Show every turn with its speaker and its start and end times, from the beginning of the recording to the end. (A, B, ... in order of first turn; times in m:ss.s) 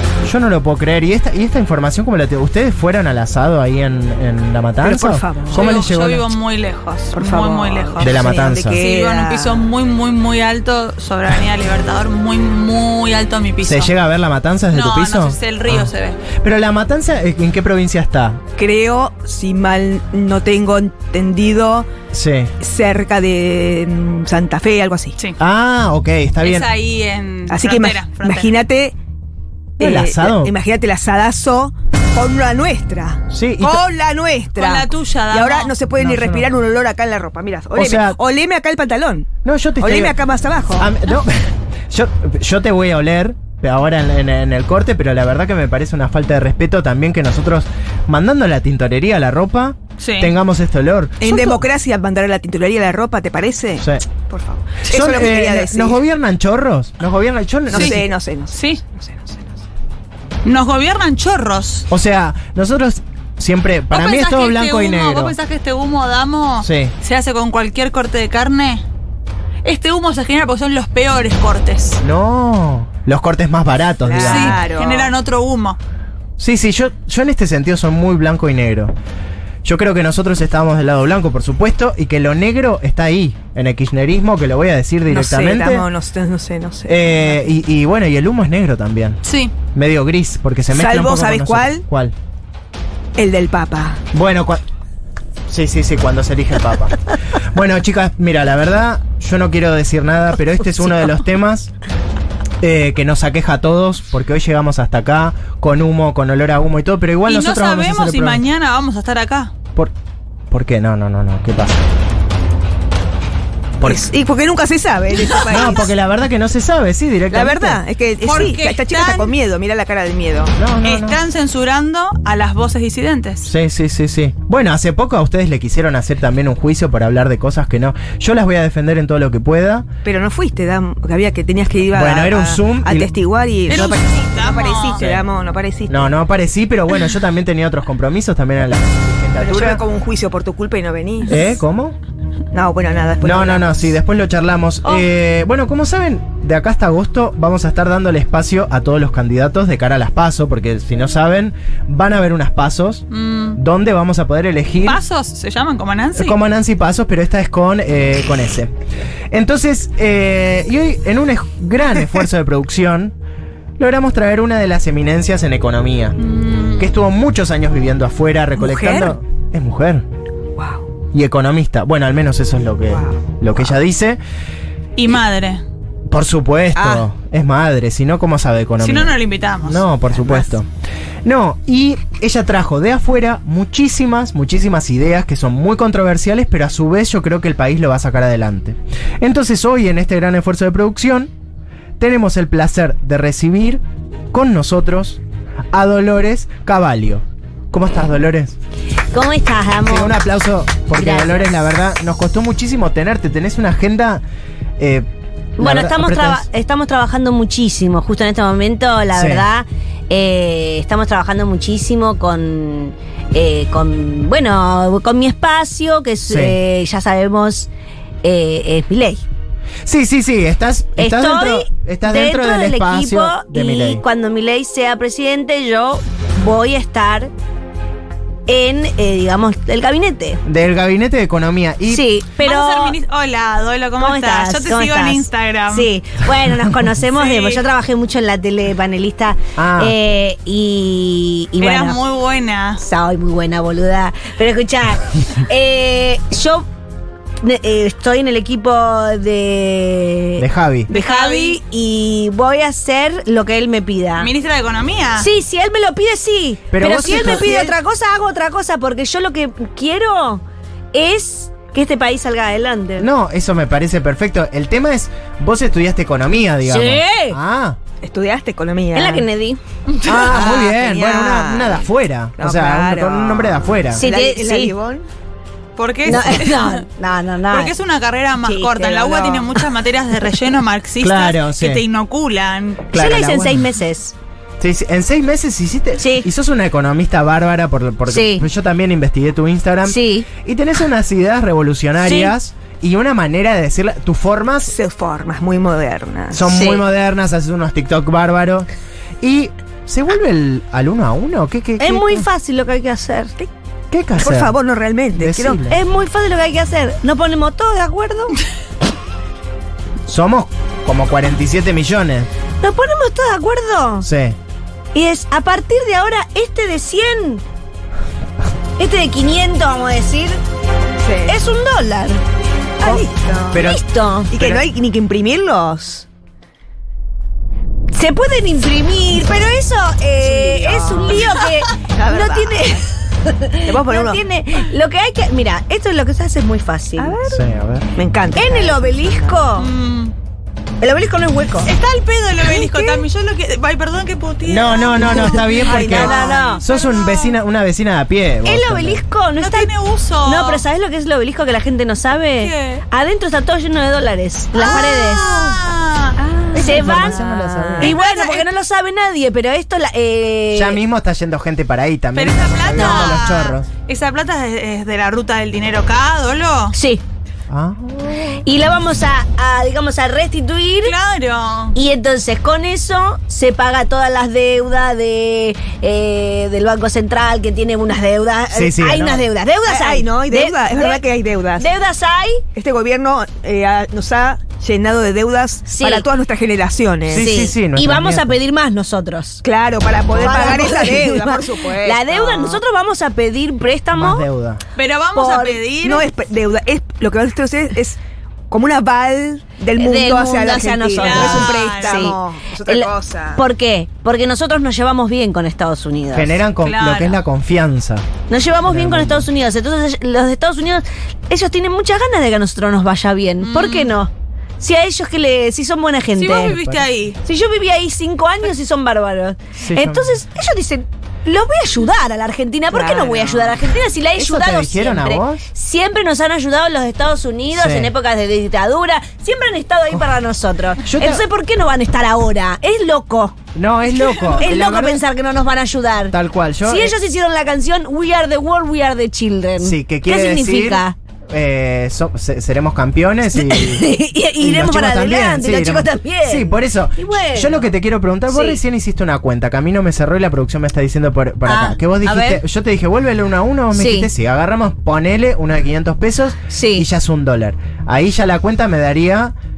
0:00.2-0:06.3 A
0:04.8-0:05.7 B
0:05.5-0:13.9 C
0:07.1-0:09.7 B
0:08.0-0:08.8 A
0:13.6-0:18.4 A
0:14.7-0:16.2 C
0:18.6-0:21.9 B
0:22.1-0:22.5 A
0:22.6-0:25.2 B
0:25.4-0:26.7 A
0:26.4-0:28.6 C
0:27.5-0:28.9 B
0:29.8-0:39.3 B
0:29.8-0:30.5 A
0:33.3-0:33.8 A
0:34.6-0:35.7 C
0:36.0-0:36.5 A
0:37.8-0:38.2 A
0:39.4-0:40.1 A
0:39.8-0:40.9 B
0:40.8-0:51.6 A
0:50.0-0:50.3 C
0:51.2-0:56.0 B
0:53.8-0:54.0 A
0:54.8-0:58.0 A
0:57.7-0:59.6 B
0:57.7-0:58.8 C
1:00.4-1:01.9 C
1:01.9-1:05.4 A
1:03.9-1:08.8 C
1:06.6-1:06.9 A
1:09.6-1:12.0 C
1:12.0-1:14.6 A
1:14.0-1:15.1 B
1:14.2-1:15.8 C
1:16.4-1:18.9 A
1:19.6-1:25.9 A
1:25.1-1:27.6 B
1:26.8-1:29.2 A
1:29.2-1:29.5 C
1:29.7-1:32.1 A
1:30.7-1:31.8 B
1:33.2-1:34.0 B
1:34.1-1:34.6 A
1:35.5-1:41.7 A
1:42.6-1:48.4 A
1:47.2-1:49.5 C
1:50.5-1:51.8 A
1:53.8-1:55.9 B
1:55.5-1:57.8 A
1:57.3-2:00.5 B
1:58.2-1:59.3 C
2:00.6-2:01.2 A
2:00.8-2:03.5 C
2:03.4-2:09.9 A
2:10.0-2:16.1 B
2:11.9-2:13.1 A
2:13.7-2:15.1 C
2:15.9-2:19.8 A
2:19.4-2:21.5 B
2:21.3-2:22.0 A
2:22.5-2:23.9 B
2:23.2-2:35.0 A
2:33.1-2:33.6 C
2:34.8-2:36.4 C
2:36.2-2:38.7 A
2:39.3-2:43.1 A
2:43.8-2:46.2 A
2:46.2-2:46.9 C
2:46.8-2:50.0 A
2:48.6-2:49.2 B
2:50.6-2:50.9 B
2:51.1-2:54.2 A
2:52.9-2:53.7 B
2:55.0-2:55.6 C
2:56.1-3:00.7 A
2:56.8-2:57.0 B
2:58.8-2:59.9 C
3:00.1-3:00.5 B
3:01.2-3:11.3 A
3:12.0-3:15.2 A
3:15.7-3:18.6 A
3:19.1-3:20.2 D
3:19.8-3:24.2 A
3:20.9-3:21.6 D
3:24.8-3:25.1 A
3:25.6-3:37.7 D
3:25.6-3:26.5 A
3:29.1-3:29.5 A
3:36.3-3:36.6 A
3:38.2-3:39.2 D
3:39.8-3:44.0 A
3:41.0-3:47.3 D
3:48.5-3:50.4 D
3:50.4-3:52.0 A
3:51.9-3:53.0 D
3:52.4-3:55.9 C
3:54.0-4:02.0 D
3:57.1-3:57.6 C
3:59.6-3:59.9 A
4:01.6-4:02.8 C
4:02.8-4:06.7 D
4:07.4-4:14.3 D
4:10.4-4:10.9 A
4:10.9-4:11.6 C
4:14.2-4:15.3 C
4:15.2-4:23.1 D
4:16.7-4:17.7 A
4:23.0-4:27.8 A
4:26.6-4:27.4 D
4:28.0-4:29.2 B
4:28.9-4:29.6 D
4:30.0-4:34.0 A
4:30.1-4:35.1 B
4:33.9-4:34.7 D
4:35.8-4:36.8 C
4:36.0-4:37.7 D
4:37.5-4:42.8 C
4:38.4-4:39.0 D
4:38.8-4:39.5 B
4:41.0-4:41.8 A
4:42.9-4:43.6 A
4:42.9-4:44.1 D
4:44.6-4:54.7 A
4:46.0-4:46.3 D
4:48.1-4:48.4 D
4:49.8-4:50.3 D
4:52.0-4:52.3 C
4:54.6-4:56.5 B
4:56.3-4:58.7 A
4:56.5-4:56.8 D
4:59.2-5:02.3 A
5:01.8-5:03.3 D
5:03.9-5:04.5 A
5:04.2-5:05.6 B
5:05.2-5:05.8 A
5:05.7-5:08.4 D
5:10.1-5:12.3 A
5:12.6-5:14.1 D
5:14.0-5:14.4 A
5:14.9-5:17.4 D
5:18.8-5:20.4 D
5:21.0-5:21.4 B
5:21.2-5:22.2 D
5:22.8-5:23.6 B
5:22.8-5:24.3 D
5:23.5-5:24.6 A
5:24.3-5:26.0 B
5:27.9-5:37.1 D
5:30.2-5:32.8 B
5:33.6-5:34.2 B
5:37.0-5:39.4 B
5:37.3-5:37.9 A
5:38.3-5:39.7 D
5:39.6-5:40.1 C
5:40.8-5:41.7 D
5:41.6-5:47.4 C
5:42.5-5:42.9 B
5:44.4-5:49.0 A
5:45.0-5:46.5 B
5:45.6-5:46.6 D
5:48.4-5:49.7 D
5:49.4-5:50.6 C
5:50.2-5:55.6 D
5:52.4-5:52.8 C
5:54.6-5:54.8 B
5:54.6-5:56.2 C
5:56.2-5:57.2 D
5:56.5-5:57.9 B
5:56.6-5:58.0 A
5:57.8-6:00.8 D
5:57.9-5:58.5 C
6:00.5-6:03.7 A
6:02.1-6:06.7 C
6:06.7-6:07.0 D
6:07.5-6:08.4 A
6:08.3-6:10.9 D
6:10.8-6:11.7 C
6:11.7-6:21.0 D
6:18.5-6:19.2 A
6:19.6-6:21.7 B
6:21.6-6:22.4 D
6:22.5-6:27.3 B
6:25.7-6:26.0 D
6:27.1-6:28.4 A
6:27.1-6:29.4 D
6:29.4-6:32.6 B
6:30.1-6:34.2 D
6:33.9-6:34.6 A
6:34.8-6:36.1 C
6:35.1-6:35.6 D
6:35.8-6:38.0 B
6:38.5-6:43.4 B
6:39.8-6:42.1 D
6:41.0-6:42.1 C
6:42.6-6:46.4 D
6:46.1-6:48.0 A
6:46.6-6:47.2 C
6:48.3-6:56.6 D
6:48.7-6:49.3 A
6:53.4-6:53.9 C
6:56.1-6:57.2 C
6:56.5-6:56.8 A
6:57.2-7:13.4 D
6:59.6-7:00.2 A
7:02.7-7:03.6 B
7:04.2-7:05.4 A
7:07.5-7:07.9 A
7:10.8-7:11.2 A
7:13.5-7:15.0 A
7:14.0-7:14.3 C
7:14.3-7:21.0 D
7:16.1-7:16.9 A
7:19.6-7:39.3 A
7:23.3-7:27.7 D
7:28.3-7:28.6 D
7:31.4-7:32.4 D
7:33.7-7:34.1 D
7:36.5-7:36.8 D